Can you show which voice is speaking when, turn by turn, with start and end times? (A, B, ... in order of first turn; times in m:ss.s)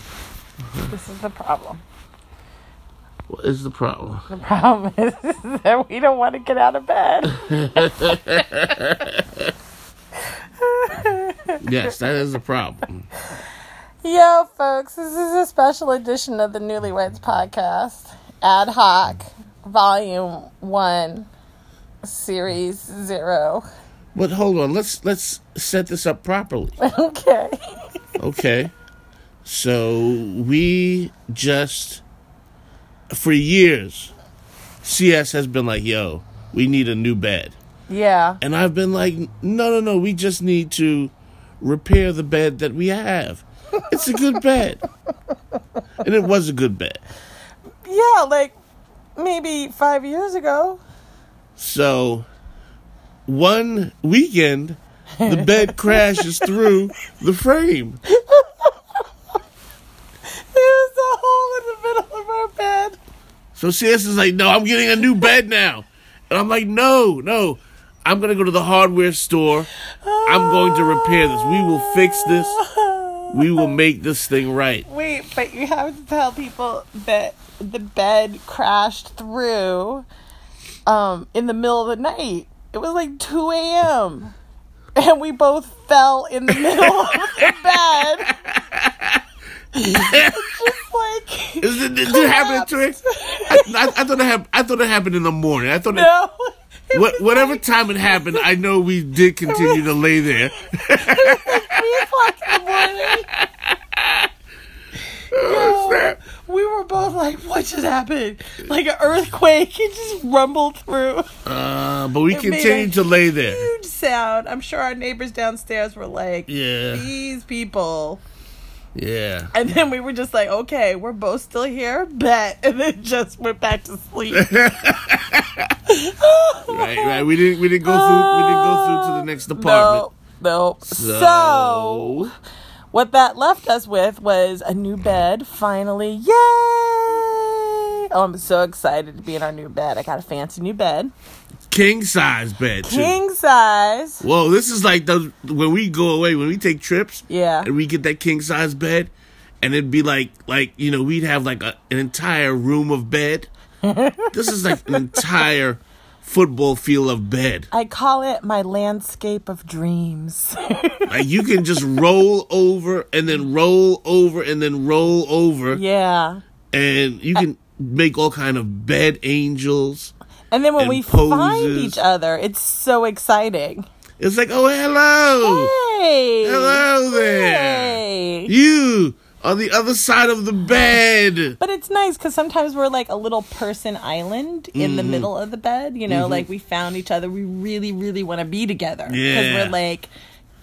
0:00.9-0:01.8 A
0:03.3-0:04.3 B
0:04.3-0:08.0 A
0:07.3-0:09.4 B
0:10.6-0:11.6 A
0:11.6-0:13.1 B
0:14.0-0:21.3 A
0:22.0-0:23.6 A
0:24.1-0:26.8 B
0:26.8-0:27.6 A
0:28.2-0:28.7 B
0:29.4-0:32.0 B
0:33.1-0:34.1 B
0:34.8-0:37.5 B
0:37.9-0:38.4 A
0:38.4-0:44.8 B
0:46.0-0:47.0 B
0:47.9-0:48.5 A
0:49.2-0:50.8 A
0:51.6-0:52.2 B
0:53.3-0:58.0 B
0:55.2-0:56.5 A
0:58.1-0:58.7 A
1:00.5-1:03.0 A
1:03.5-1:09.7 B
1:10.0-1:13.7 A
1:10.2-1:12.6 B
1:13.3-1:14.8 B
1:14.9-1:20.0 A
1:20.8-1:24.3 A
1:25.0-1:28.3 A
1:26.5-1:29.2 B
1:29.7-1:34.0 A
1:29.9-1:30.6 B
1:31.6-1:33.0 B
1:33.5-1:36.1 B
1:35.9-1:38.4 A
1:36.9-1:44.3 B
1:39.4-1:39.9 A
1:40.8-1:43.3 A
1:45.3-1:46.2 B
1:45.3-1:51.3 A
1:51.4-1:53.7 B
1:52.3-1:58.2 A
1:56.5-1:57.1 B
1:58.9-1:59.5 B
1:59.5-2:04.5 A
2:04.3-2:05.7 B
2:05.9-2:07.3 A
2:06.7-2:10.0 B
2:07.8-2:12.3 A
2:10.8-2:12.3 B
2:12.9-2:21.1 A
2:21.7-2:23.2 B
2:22.8-2:24.2 A
2:24.2-2:33.5 B
2:27.3-2:27.7 A
2:33.8-2:35.2 A
2:34.3-2:37.7 B
2:37.7-2:41.1 A
2:41.1-2:45.8 B
2:45.7-2:46.4 A
2:46.7-2:50.1 B
2:50.5-2:53.8 A
2:50.8-2:52.0 B
2:54.2-2:55.7 B
2:55.4-2:58.5 A
2:56.4-3:01.6 B
3:01.6-3:10.1 A
3:04.8-3:05.3 B
3:06.1-3:06.4 B
3:09.1-3:09.8 B